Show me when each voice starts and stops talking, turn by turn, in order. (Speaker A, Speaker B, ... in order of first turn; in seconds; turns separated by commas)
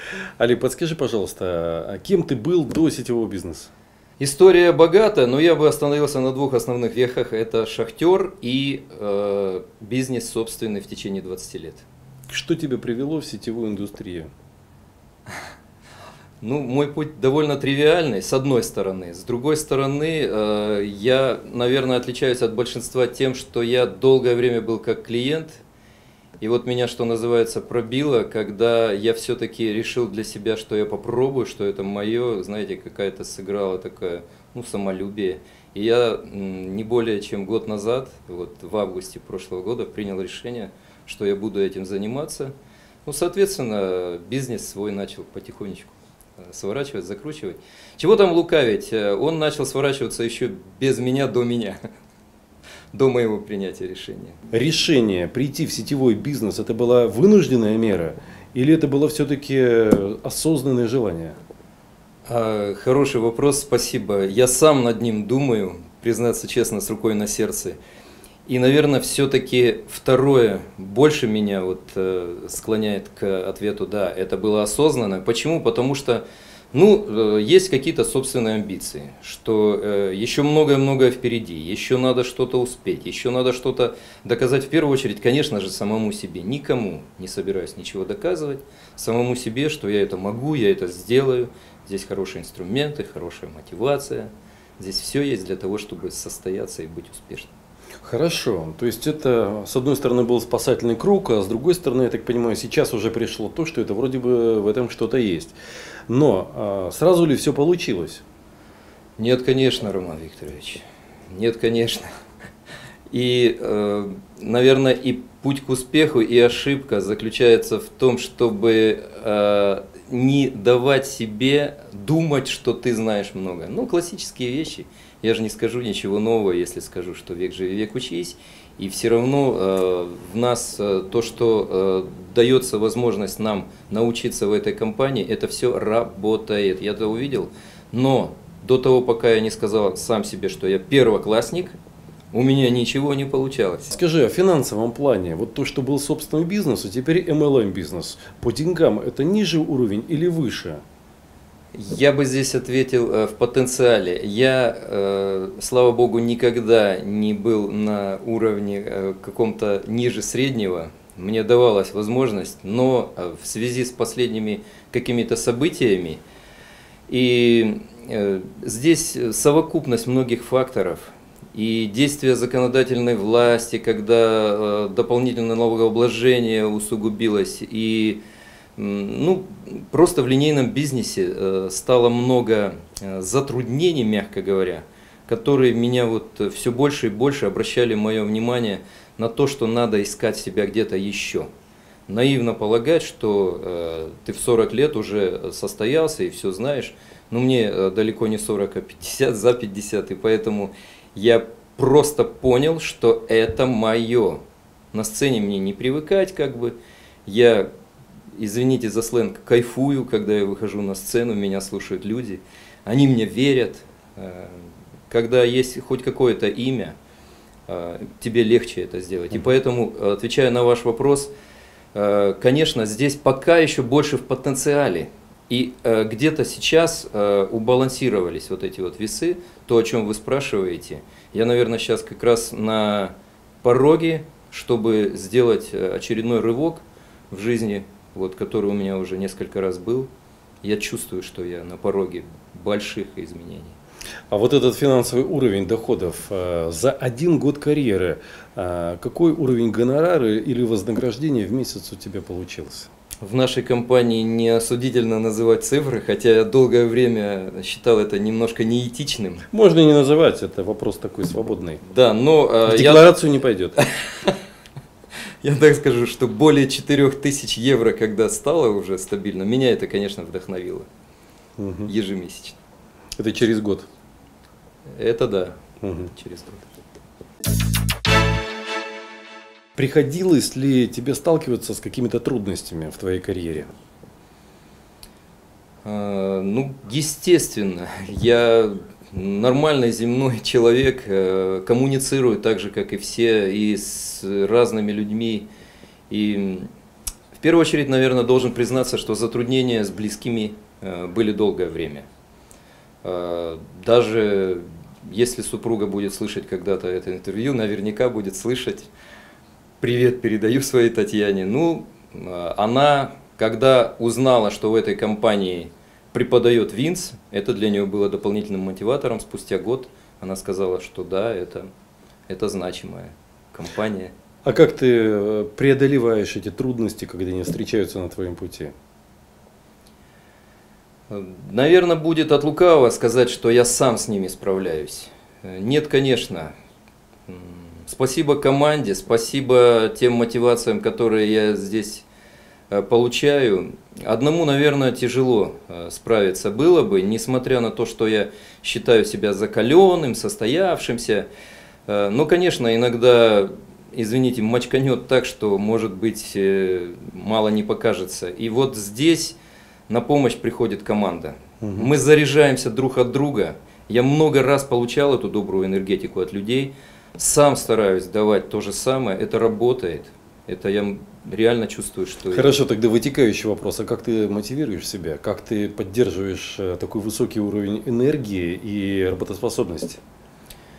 Speaker A: 0.4-3.7, Speaker B: 4.2-11.8, Speaker A: 12.3-14.3, Speaker B: 16.4-25.6, Speaker B: 26.4-42.5, Speaker B: 43.0-51.8, Speaker B: 52.9-54.4, Speaker A: 54.5-61.4, Speaker B: 62.3-67.8, Speaker B: 68.5-97.5, Speaker A: 98.0-105.6, Speaker A: 106.1-108.2, Speaker B: 109.2-112.0, Speaker B: 113.1-141.8, Speaker B: 142.3-144.0, Speaker A: 143.9-150.8, Speaker B: 151.7-166.2, Speaker B: 167.1-178.2, Speaker B: 178.8-191.5, Speaker B: 192.1-204.4, Speaker B: 204.9-207.7, Speaker B: 208.3-217.0, Speaker B: 217.7-221.3, Speaker B: 221.9-240.1, Speaker B: 240.6-243.8, Speaker A: 244.3-252.9, Speaker B: 253.2-259.4, Speaker A: 259.5-261.8, Speaker B: 261.8-263.2, Speaker A: 262.7-263.8, Speaker B: 263.8-264.4, Speaker B: 265.4-270.9, Speaker A: 271.6-271.9, Speaker B: 271.9-272.6, Speaker A: 273.2-273.9, Speaker B: 274.9-275.6, Speaker A: 275.8-276.1, Speaker B: 276.1-276.7, Speaker A: 279.8-283.7, Speaker B: 285.8-295.5, Speaker B: 296.1-296.7, Speaker B: 297.4-302.1, Speaker B: 303.0-308.9, Speaker B: 309.8-321.7, Speaker B: 322.3-324.1, Speaker A: 324.4-328.7, Speaker B: 331.1-336.5, Speaker B: 337.3-342.1, Speaker B: 342.7-351.3, Speaker B: 351.9-359.4, Speaker B: 359.9-372.6, Speaker A: 361.6-361.9, Speaker A: 372.3-380.0